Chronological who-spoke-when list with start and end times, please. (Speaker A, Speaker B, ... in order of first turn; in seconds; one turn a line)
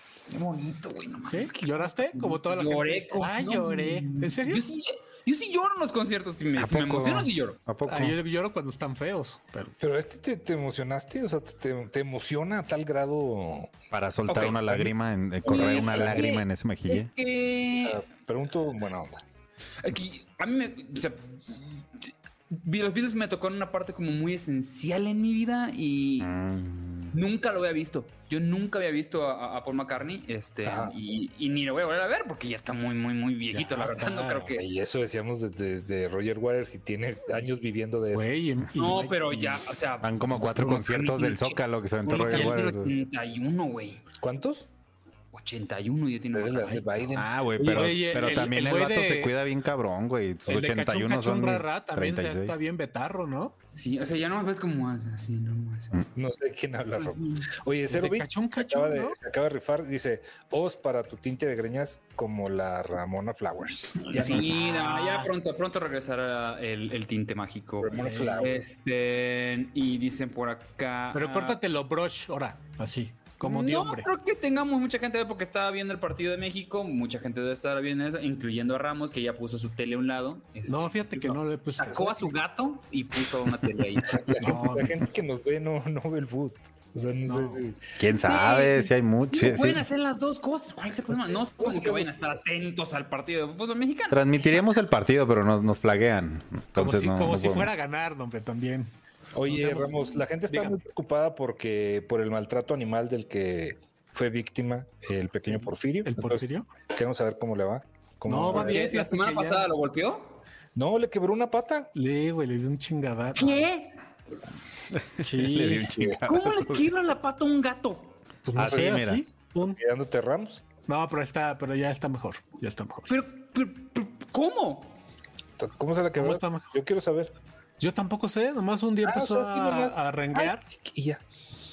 Speaker A: 0.3-7.6
Speaker B: 1.2-4.7
Speaker C: 6.6-8.2
Speaker B: 7.8-9.7
Speaker D: 9.8-13.7
Speaker C: 13.9-17.1
Speaker A: 14.3-14.8
Speaker D: 15.4-16.3
Speaker A: 15.4-18.0
Speaker D: 17.8-19.2
Speaker A: 19.8-21.8
Speaker A: 22.5-26.3
Speaker C: 26.2-27.1
Speaker A: 27.1-34.6
Speaker D: 30.6-30.9
Speaker B: 33.5-34.5
Speaker D: 34.5-38.3
Speaker B: 38.1-39.6
Speaker A: 38.8-44.0
Speaker C: 40.0-42.9
Speaker D: 44.2-44.7
Speaker A: 45.3-47.0
Speaker D: 46.3-47.4
Speaker C: 47.1-52.5
Speaker B: 47.6-49.4
Speaker B: 50.5-53.5
Speaker A: 53.7-56.1
Speaker D: 56.1-64.6
Speaker A: 57.0-57.5
Speaker B: 57.9-59.2
Speaker A: 64.0-71.6
Speaker B: 64.1-65.3
Speaker D: 67.8-68.6
Speaker B: 68.0-68.5
Speaker B: 71.1-74.1
Speaker A: 73.4-84.4
Speaker B: 80.7-82.3
Speaker D: 84.1-87.8
Speaker B: 84.3-85.0
Speaker B: 87.2-87.6
Speaker C: 88.0-89.8
Speaker A: 88.2-94.8
Speaker D: 91.1-92.4
Speaker C: 94.1-97.7
Speaker B: 96.8-98.9
Speaker D: 99.3-108.9
Speaker B: 99.4-100.8
Speaker B: 106.0-106.7
Speaker B: 108.2-109.7
Speaker A: 108.5-110.4
Speaker D: 110.7-111.9
Speaker B: 111.9-113.6
Speaker A: 113.3-114.0
Speaker B: 115.2-116.2
Speaker C: 115.4-116.8
Speaker A: 116.2-118.2
Speaker B: 118.4-119.8
Speaker C: 118.5-119.2
Speaker D: 118.6-119.0
Speaker D: 119.6-120.6
Speaker B: 120.8-123.2
Speaker A: 123.1-125.0
Speaker D: 125.6-127.3
Speaker B: 126.2-126.7
Speaker B: 127.8-130.6
Speaker D: 129.0-131.2